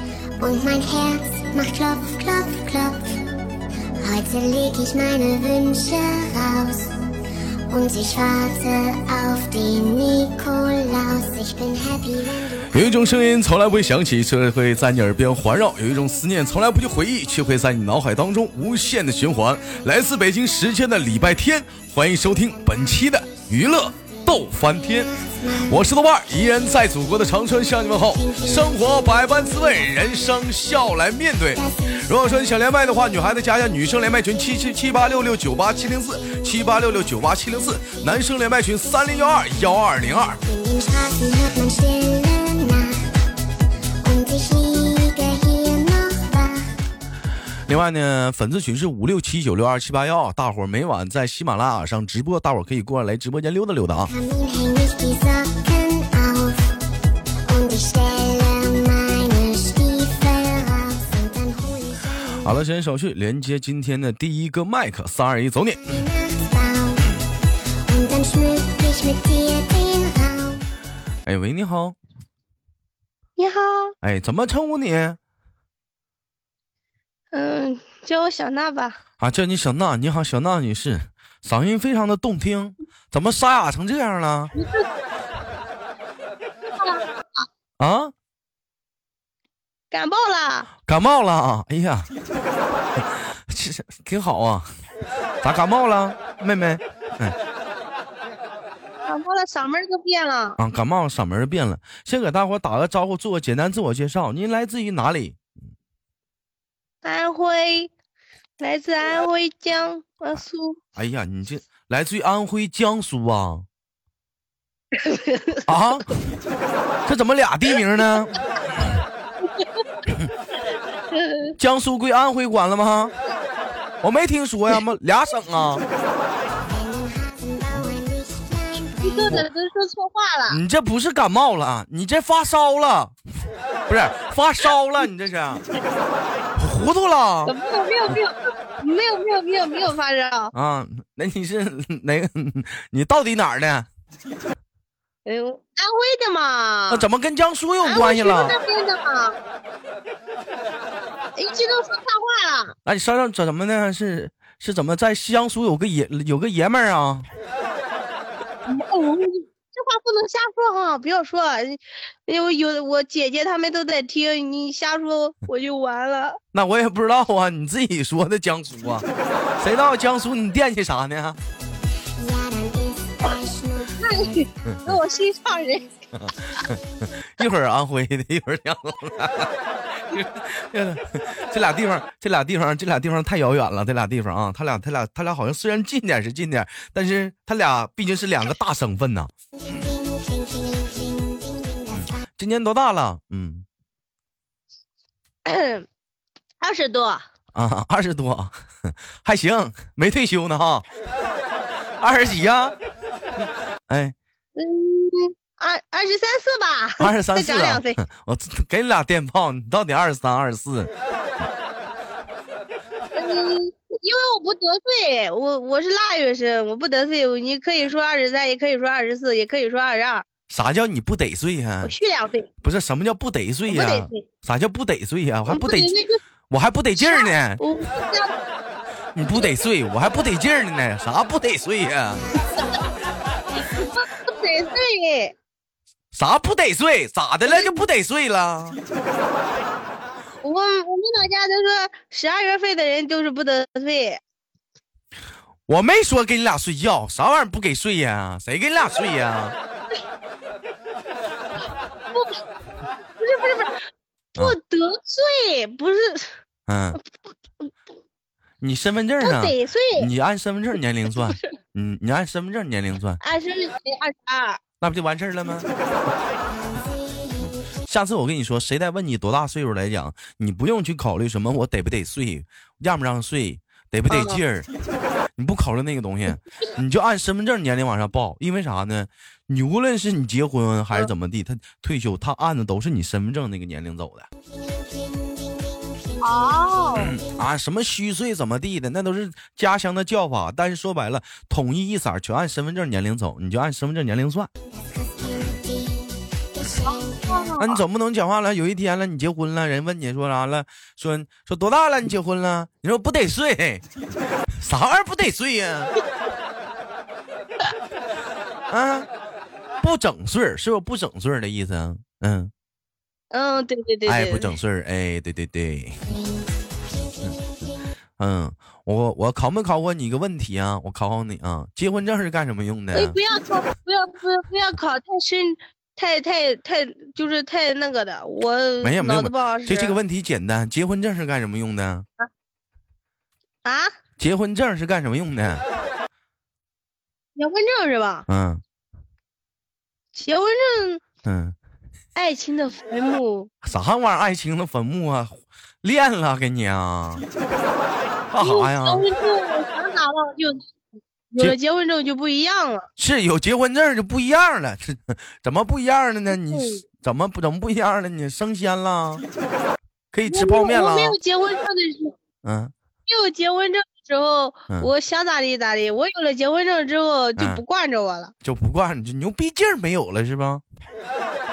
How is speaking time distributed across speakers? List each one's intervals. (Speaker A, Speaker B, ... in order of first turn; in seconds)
Speaker A: 0.4-3.1, 4.0-6.9, 7.7-13.4, 23.3-25.8, 28.1-30.1, 31.5-32.6, 36.2-36.5, 40.4-43.1, 44.0-46.8, 54.0-56.7, 57.5-62.5, 65.8-67.2, 67.9-70.6, 126.6-129.4, 172.1-174.8, 189.6-192.2, 266.4-267.8, 284.4-287.3, 294.6-297.6, 316.0-317.8
Speaker B: 12.7-40.4, 47.7-54.1, 62.4-66.0, 71.2-72.0, 74.0-75.2, 79.2-84.5, 87.8-88.1, 90.8-92.1, 93.0-94.7, 95.4-97.4, 100.6-105.5, 111.0-113.7, 115.7-116.2, 117.0-118.3, 121.6-123.1, 124.0-125.8, 130.5-133.1, 133.9-135.6, 136.6-137.5, 140.5-143.9, 146.9-148.5, 152.8-157.3, 166.5-169.1, 169.6-171.4, 174.6-175.0, 176.1-179.5, 180.1-189.3, 191.9-193.7, 197.5-200.8, 202.0-202.8, 203.4-204.2, 207.0-210.9, 220.5-221.9, 222.6-225.9, 226.5-227.6, 229.2-232.2, 236.1-238.8, 245.7-249.6, 256.7-257.0, 258.6-263.2, 264.8-265.7, 267.4-274.7, 275.4-284.3, 286.9-294.5, 297.6-303.8, 304.6-305.9, 308.7-309.1, 309.8-312.5, 314.1-316.0, 318.2-323.2, 328.8-332.1, 334.2-335.6, 338.3-338.6, 341.2-341.6, 343.6-347.2, 348.3-349.0, 353.0-359.2, 360.1-361.2, 362.4-362.7, 367.4-367.6, 368.4-370.6
Speaker C: 73.4-73.9, 77.3-79.0, 84.5-84.8, 86.8-87.4, 89.9-90.7, 99.0-100.6, 107.0-107.9, 108.6-110.8, 114.9-115.7, 119.5-119.8, 121.1-121.5, 129.0-130.6, 137.4-140.5, 145.2-147.1, 147.8-149.4, 151.4-152.7, 158.7-166.4, 174.0-175.9, 195.4-195.9, 196.6-197.2, 204.6-208.0, 213.1-220.2, 221.8-222.5, 223.7-224.2, 225.5-226.2, 226.9-228.3, 229.2-229.5, 232.5-232.8, 233.6-235.3, 237.5-237.8, 240.4-244.2, 252.1-252.4, 253.2-253.8, 254.4-256.3, 259.2-260.1, 261.1-261.5, 263.2-264.6, 274.1-274.4, 286.2-287.1, 296.8-297.8, 313.3-314.5, 322.9-330.0, 333.6-333.9, 337.4-338.2, 340.1-341.0, 342.1-343.5, 348.4-350.7, 351.3-352.9, 356.3-356.8, 360.2-362.1, 363.1-368.3